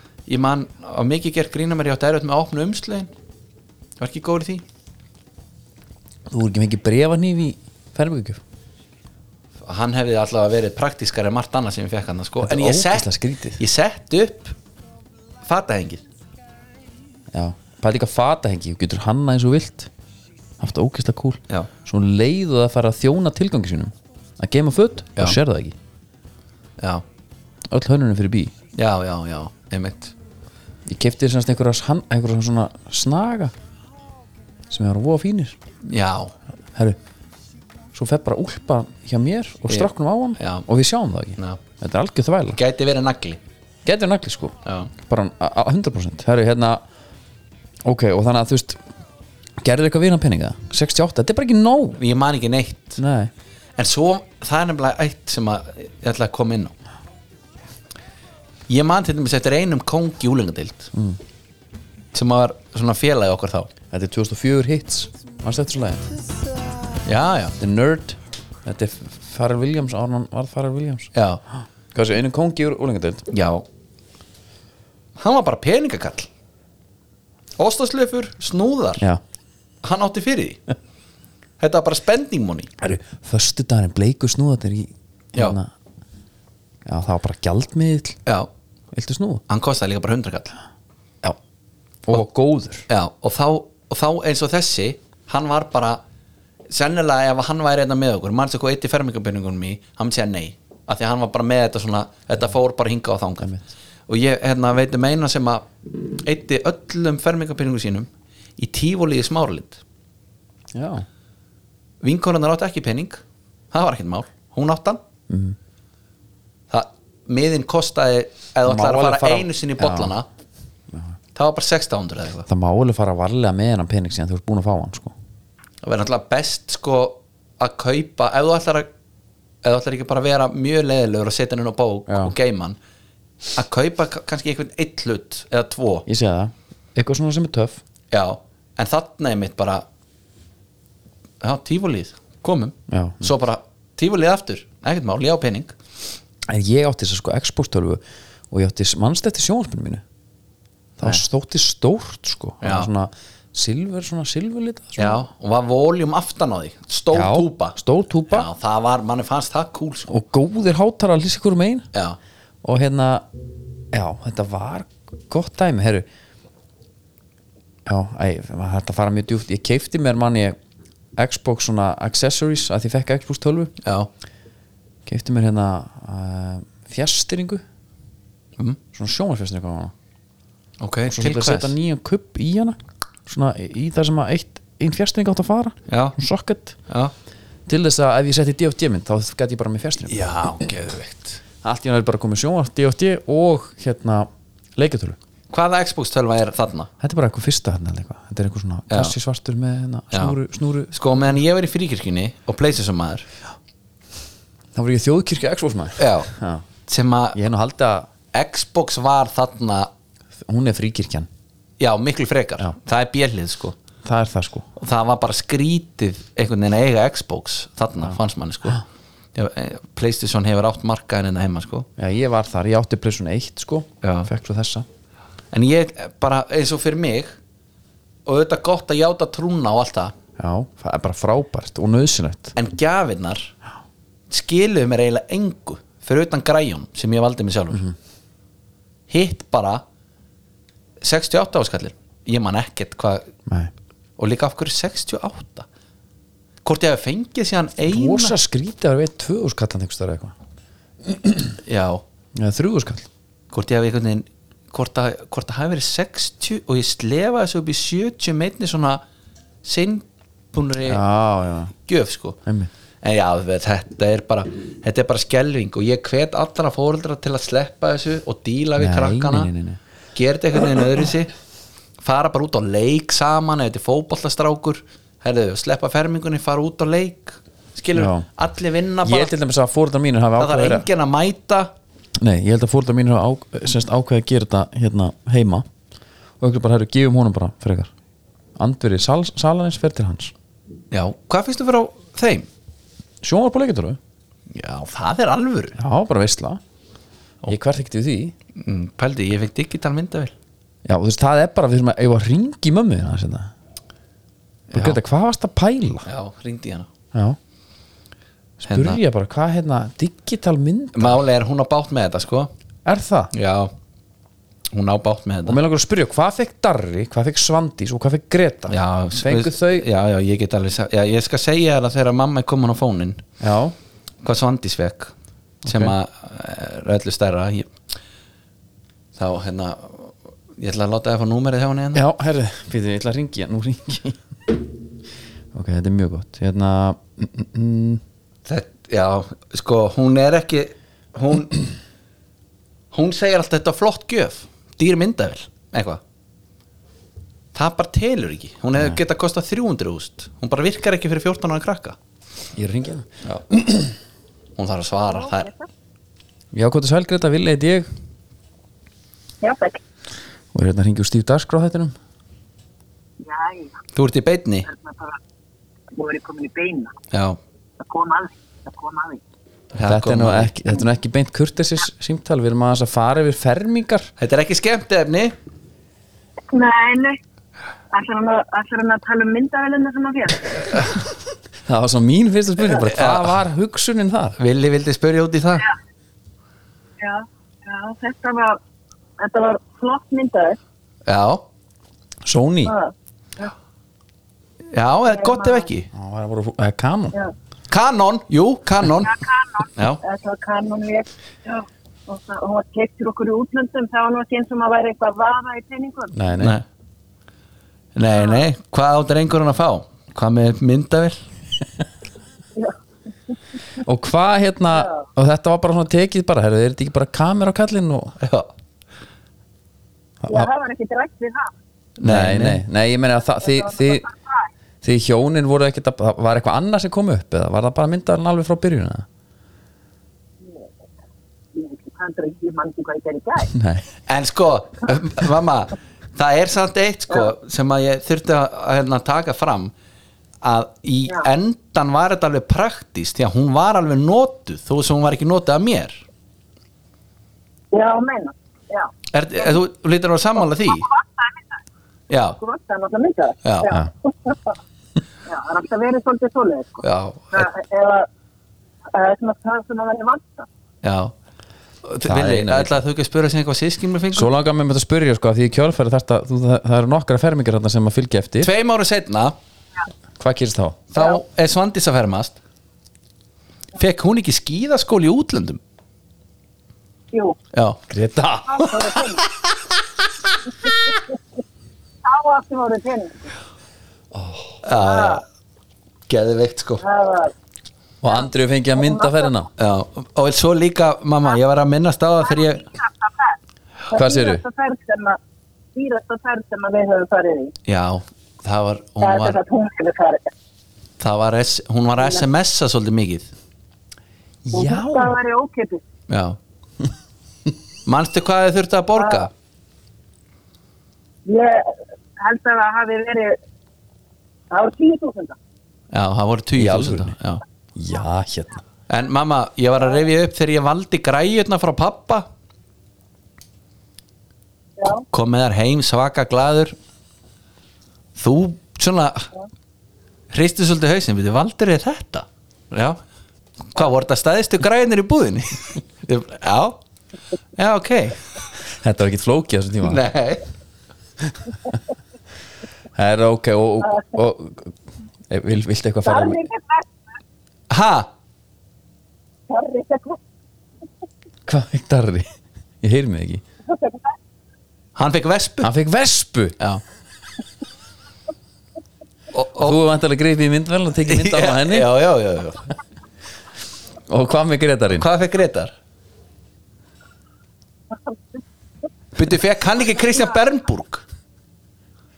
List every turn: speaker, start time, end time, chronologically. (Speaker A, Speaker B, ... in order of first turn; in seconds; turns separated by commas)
Speaker A: 0.3-3.1, Speaker A: 4.0-4.6, Speaker B: 6.3-8.4, Speaker A: 9.7-14.6, Speaker B: 12.4-13.6, Speaker A: 15.4-16.0, Speaker B: 17.3-19.9, Speaker B: 20.6-25.8, Speaker A: 26.8-27.0, Speaker B: 27.7-28.5, Speaker A: 28.8-30.1, Speaker B: 30.9-33.5, Speaker B: 34.7-35.6, Speaker A: 35.8-36.3, Speaker B: 37.9-42.6, Speaker A: 39.7-40.7, Speaker A: 42.5-43.4, Speaker B: 43.9-46.8, Speaker A: 44.7-44.9, Speaker B: 47.8-48.8, Speaker B: 49.6-52.0, Speaker A: 52.0-53.0, Speaker B: 53.0-53.3, Speaker A: 53.8-56.7, Speaker A: 58.7-60.9, Speaker B: 60.9-61.2, Speaker A: 62.1-63.7, Speaker B: 63.9-66.1, Speaker A: 67.0-67.6, Speaker B: 67.6-71.1, Speaker A: 71.1-71.4, Speaker B: 71.9-73.3, Speaker A: 73.3-73.7, Speaker A: 75.2-76.3, Speaker A: 77.6-79.1, Speaker A: 79.8-80.6, Speaker A: 81.6-82.7, Speaker B: 82.8-85.7, Speaker B: 86.9-88.2, Speaker B: 88.9-89.4, Speaker A: 89.5-90.6, Speaker B: 92.1-92.9, Speaker A: 92.9-96.0, Speaker A: 96.7-103.5, Speaker B: 103.4-103.7, Speaker A: 104.1-105.7, Speaker A: 106.2-109.8, Speaker B: 110.7-111.1, Speaker A: 112.0-113.2, Speaker A: 113.7-115.0, Speaker B: 115.3-115.6, Speaker A: 116.7-120.3, Speaker B: 118.7-120.1, Speaker B: 120.9-121.2, Speaker A: 121.3-122.5, Speaker B: 122.5-125.1, Speaker A: 125.8-128.9, Speaker A: 129.6-132.8, Speaker B: 132.1-132.3, Speaker A: 133.6-136.1, Speaker B: 136.1-137.8, Speaker A: 138.1-139.8, Speaker A: 141.4-145.8, Speaker B: 142.9-143.3, Speaker B: 146.5-150.0, Speaker B: 151.0-155.2, Speaker A: 152.6-152.9, Speaker A: 155.0-157.8, Speaker B: 157.1-158.5, Speaker A: 158.3-160.1, Speaker B: 160.1-161.9, Speaker B: 162.6-163.3, Speaker B: 163.9-166.1, Speaker B: 167.9-170.6, Speaker B: 171.2-173.7, Speaker A: 173.8-174.1, Speaker B: 175.1-177.6, Speaker B: 178.9-179.9, Speaker A: 180.8-181.7, Speaker B: 181.1-186.8, Speaker A: 185.9-186.2, Speaker A: 186.9-187.1, Speaker B: 187.7-190.5, Speaker A: 190.1-191.4, Speaker B: 191.6-195.2, Speaker A: 195.5-196.9, Speaker B: 197.0-200.9, Speaker A: 198.9-199.2, Speaker A: 200.1-200.4, Speaker A: 200.9-203.3, Speaker B: 204.7-206.7, Speaker A: 206.0-206.3, Speaker A: 206.9-207.4, Speaker B: 207.3-208.1, Speaker A: 208.3-209.9, Speaker B: 210.4-211.3, Speaker A: 211.8-213.8, Speaker B: 214.0-214.7, Speaker A: 214.8-218.8, Speaker A: 219.3-221.9, Speaker B: 222.0-224.9, Speaker A: 224.0-224.3, Speaker A: 225.5-227.4, Speaker A: 228.3-230.2, Speaker B: 230.4-232.6, Speaker A: 232.6-233.5, Speaker A: 234.3-237.9, Speaker A: 239.1-239.8, Speaker A: 241.0-243.3, Speaker A: 244.2-245.7, Speaker A: 246.6-248.4, Speaker B: 247.9-250.3, Speaker B: 251.0-251.6, Speaker A: 251.6-252.0, Speaker B: 252.3-253.1, Speaker A: 253.5-259.0, Speaker A: 259.6-261.0, Speaker B: 260.9-261.7, Speaker A: 261.9-262.4, Speaker B: 262.5-262.7, Speaker A: 263.0-269.5, Speaker B: 268.8-269.8, Speaker A: 270.1-271.3, Speaker A: 272.0-279.3, Speaker B: 277.9-278.3, Speaker B: 279.0-280.9, Speaker A: 280.4-281.7, Speaker B: 282.2-285.7, Speaker B: 286.4-287.9, Speaker B: 288.6-290.3, Speaker A: 290.9-292.5, Speaker B: 293.2-294.0, Speaker A: 294.5-295.8, Speaker B: 295.8-296.6, Speaker B: 297.5-298.4, Speaker A: 298.6-300.3, Speaker B: 300.9-303.5, Speaker A: 304.7-305.0, Speaker B: 304.7-306.1, Speaker A: 306.1-306.9, Speaker B: 308.6-311.2, Speaker A: 308.7-309.0, Speaker A: 310.9-312.5, Speaker B: 312.9-313.3, Speaker A: 313.3-313.7, Speaker A: 314.7-315.6, Speaker B: 315.5-319.9, Speaker A: 318.7-323.2, Speaker B: 323.4-323.8, Speaker A: 324.2-325.1, Speaker B: 325.6-325.9, Speaker A: 325.7-327.7, Speaker A: 329.2-332.1, Speaker B: 331.9-334.6, Speaker B: 335.5-338.0, Speaker A: 338.5-341.6, Speaker A: 342.9-346.0, Speaker A: 347.5-352.0, Speaker B: 352.5-353.9, Speaker A: 354.6-355.5, Speaker C: 355.1-355.7, Speaker B: 356.5-357.9, Speaker C: 359.4-359.8, Speaker B: 360.5-362.0, Speaker C: 363.2-363.8, Speaker A: 363.9-364.7, Speaker C: 364.7-365.2, Speaker C: 365.9-366.9, Speaker A: 367.1-367.4, Speaker C: 367.8-369.2, Speaker A: 369.7-370.5, Speaker B: 369.9-374.1, Speaker A: 374.2-375.3, Speaker C: 376.5-377.2, Speaker C: 377.9-381.0, Speaker B: 381.7-384.4, Speaker A: 382.6-383.4, Speaker A: 384.4-385.7, Speaker C: 387.0-388.6, Speaker C: 389.2-390.6, Speaker A: 391.1-391.4, Speaker B: 392.2-392.8, Speaker C: 392.7-393.5, Speaker A: 394.7-395.9, Speaker C: 395.1-395.7, Speaker B: 395.9-397.1, Speaker A: 397.7-400.0, Speaker C: 399.0-406.3, Speaker B: 406.1-406.6, Speaker A: 406.4-406.6, Speaker A: 408.0-411.2, Speaker B: 413.8-418.2, Speaker C: 414.7-415.1, Speaker A: 418.2-418.5, Speaker B: 420.2-420.5, Speaker C: 420.3-421.5, Speaker A: 422.0-422.6, Speaker B: 422.0-424.1, Speaker C: 423.4-424.4, Speaker B: 424.8-429.1, Speaker C: 431.5-433.5, Speaker B: 433.5-433.9, Speaker A: 434.1-439.7, Speaker A: 440.4-446.0, Speaker C: 447.7-449.5, Speaker A: 449.1-450.9, Speaker C: 450.7-451.4, Speaker A: 452.1-452.4, Speaker C: 452.4-454.6, Speaker A: 453.4-453.8, Speaker C: 455.3-458.1, Speaker A: 456.8-457.5, Speaker C: 458.9-460.5, Speaker A: 460.8-461.1, Speaker A: 461.8-464.3, Speaker B: 462.1-462.8, Speaker B: 464.1-468.5, Speaker A: 468.4-469.4, Speaker B: 470.2-470.8, Speaker A: 470.9-472.4, Speaker A: 473.8-475.6, Speaker C: 477.1-477.4, Speaker A: 477.5-477.8, Speaker B: 477.9-479.1, Speaker C: 478.5-479.3, Speaker C: 482.0-483.3, Speaker B: 484.1-484.5, Speaker A: 484.6-485.2, Speaker C: 484.8-485.2, Speaker A: 486.1-486.8, Speaker C: 486.8-487.3, Speaker B: 488.0-489.5, Speaker C: 488.8-489.3, Speaker A: 489.6-492.7, Speaker C: 492.4-493.4, Speaker C: 493.9-495.2, Speaker B: 493.9-494.4, Speaker C: 495.8-497.6, Speaker A: 497.7-499.4, Speaker C: 499.0-500.3, Speaker A: 501.0-503.3, Speaker B: 504.4-505.2, Speaker C: 504.5-505.8, Speaker A: 506.1-506.4, Speaker A: 507.9-509.3, Speaker C: 509.0-509.3, Speaker C: 511.2-513.4, Speaker C: 514.5-515.4, Speaker A: 515.9-517.4, Speaker B: 516.6-517.1, Speaker B: 517.8-518.6, Speaker A: 518.9-522.3, Speaker C: 524.8-525.0, Speaker A: 525.1-526.8, Speaker A: 528.2-529.3, Speaker A: 530.3-533.0, Speaker A: 533.7-536.8, Speaker A: 537.6-538.3, Speaker B: 538.7-540.1, Speaker A: 539.8-540.5, Speaker B: 541.2-541.8, Speaker B: 543.0-544.8, Speaker B: 545.3-546.4, Speaker C: 546.0-546.9, Speaker A: 547.7-548.1, Speaker C: 549.5-550.2, Speaker B: 551.5-552.3, Speaker B: 552.8-553.4, Speaker C: 553.7-554.2, Speaker A: 555.0-555.7, Speaker B: 555.6-556.6, Speaker A: 559.3-559.8, Speaker B: 559.6-561.9, Speaker A: 561.1-562.7, Speaker B: 564.1-565.1, Speaker A: 564.9-565.7, Speaker A: 569.2-571.0